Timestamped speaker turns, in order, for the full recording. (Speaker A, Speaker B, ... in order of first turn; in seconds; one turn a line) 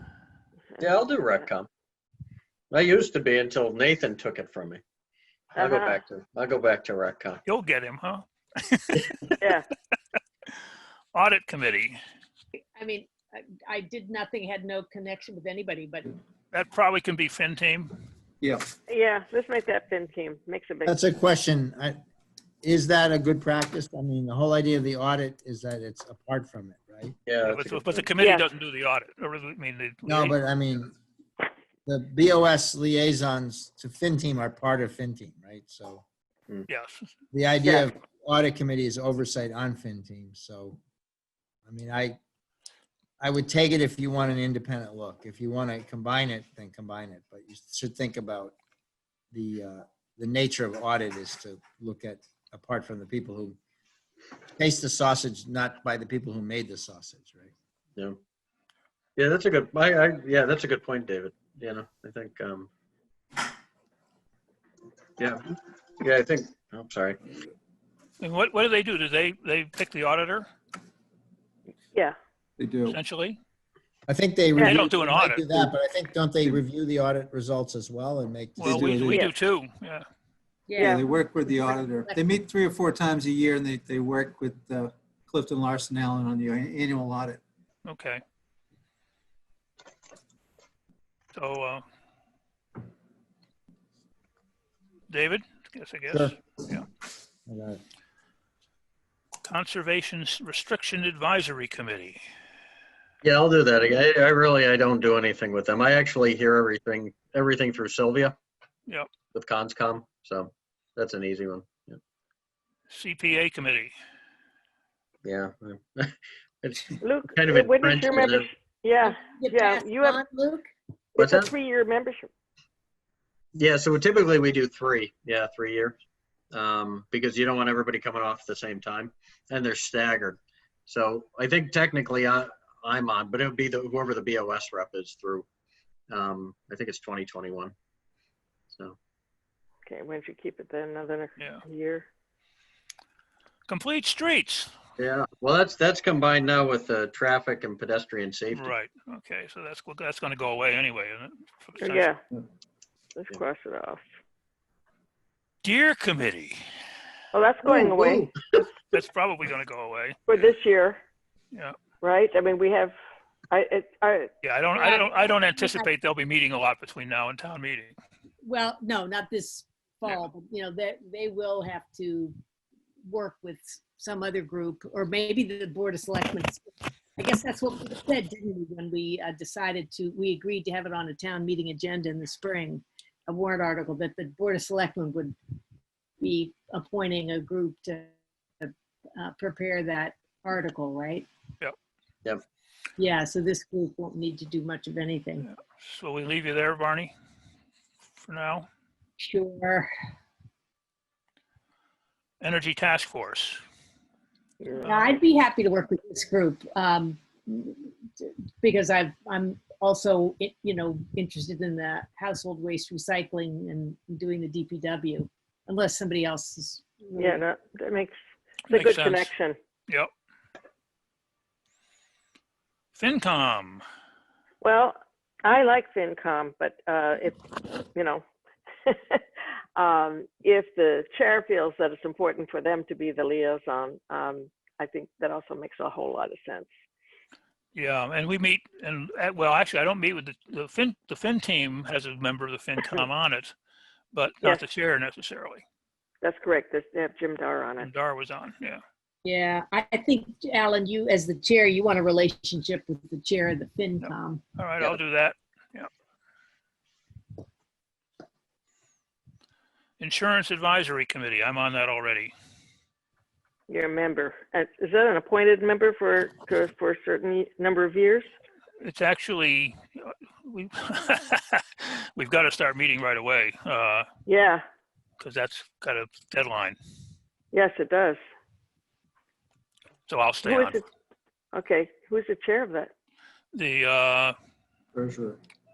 Speaker A: 0.8-1.7
Speaker A: 2.7-4.8
Speaker A: 5.5-7.4
Speaker B: 5.5-6.0
Speaker C: 7.5-9.3
Speaker B: 9.4-9.7
Speaker C: 11.1-12.0
Speaker D: 12.8-16.1
Speaker C: 16.5-17.9
Speaker E: 18.4-18.7
Speaker B: 18.9-20.9
Speaker F: 20.9-22.0
Speaker F: 22.6-27.2
Speaker A: 27.3-28.0
Speaker C: 27.4-30.4
Speaker B: 28.2-28.5
Speaker F: 30.1-30.9
Speaker F: 31.9-36.0
Speaker C: 36.7-37.1
Speaker F: 37.3-40.8
Speaker F: 41.7-42.2
Speaker F: 43.2-48.5
Speaker F: 49.3-53.6
Speaker F: 54.6-57.5
Speaker A: 59.2-62.7
Speaker A: 65.2-67.2
Speaker C: 68.2-70.5
Speaker E: 72.6-73.0
Speaker C: 72.8-73.4
Speaker F: 74.1-79.1
Speaker C: 74.6-75.5
Speaker C: 78.6-80.0
Speaker E: 78.6-79.2
Speaker D: 80.7-82.2
Speaker E: 80.8-87.4
Speaker B: 80.8-81.0
Speaker C: 87.8-88.2
Speaker C: 91.3-91.8
Speaker C: 95.1-96.8
Speaker F: 96.1-96.4
Speaker F: 97.5-97.8
Speaker C: 99.4-102.2
Speaker A: 103.2-108.3
Speaker A: 109.3-112.0
Speaker C: 112.9-113.9
Speaker A: 115.2-118.5
Speaker B: 117.0-120.2
Speaker D: 119.0-120.7
Speaker B: 121.2-122.2
Speaker A: 121.2-121.5
Speaker A: 123.5-125.9
Speaker A: 126.5-135.4
Speaker A: 136.1-137.7
Speaker A: 138.7-138.9
Speaker B: 139.8-142.1
Speaker C: 141.4-141.6
Speaker C: 143.7-144.7
Speaker A: 145.0-148.7
Speaker C: 148.5-152.1
Speaker B: 151.8-152.2
Speaker B: 153.1-154.0
Speaker C: 155.6-156.6
Speaker B: 157.3-158.3
Speaker A: 157.6-158.3
Speaker C: 158.9-160.2
Speaker B: 160.3-161.0
Speaker B: 162.0-162.9
Speaker B: 163.5-164.3
Speaker C: 164.4-167.9
Speaker D: 164.7-165.9
Speaker D: 168.4-172.3
Speaker D: 173.1-176.7
Speaker D: 177.2-185.3
Speaker D: 186.2-191.3
Speaker D: 193.0-195.5
Speaker C: 195.4-197.1
Speaker C: 198.2-198.7
Speaker D: 199.2-199.9
Speaker C: 202.4-203.6
Speaker B: 204.6-204.9
Speaker C: 204.7-205.1
Speaker D: 204.8-217.4
Speaker B: 217.2-218.2
Speaker B: 218.7-219.6
Speaker C: 218.7-219.3
Speaker C: 222.9-223.8
Speaker B: 224.6-227.4
Speaker B: 227.9-228.2
Speaker B: 228.8-229.2
Speaker B: 229.8-236.7
Speaker C: 237.7-243.5
Speaker C: 244.1-245.6
Speaker B: 246.2-247.9
Speaker C: 247.8-248.8
Speaker D: 249.2-254.4
Speaker C: 254.0-255.9
Speaker C: 260.0-262.3
Speaker B: 263.7-268.3
Speaker C: 268.8-274.1
Speaker B: 274.3-274.6
Speaker C: 275.2-276.8
Speaker B: 277.5-278.2
Speaker C: 280.1-280.8
Speaker B: 280.4-280.8
Speaker B: 281.5-282.9
Speaker C: 283.5-284.3
Speaker E: 284.9-285.4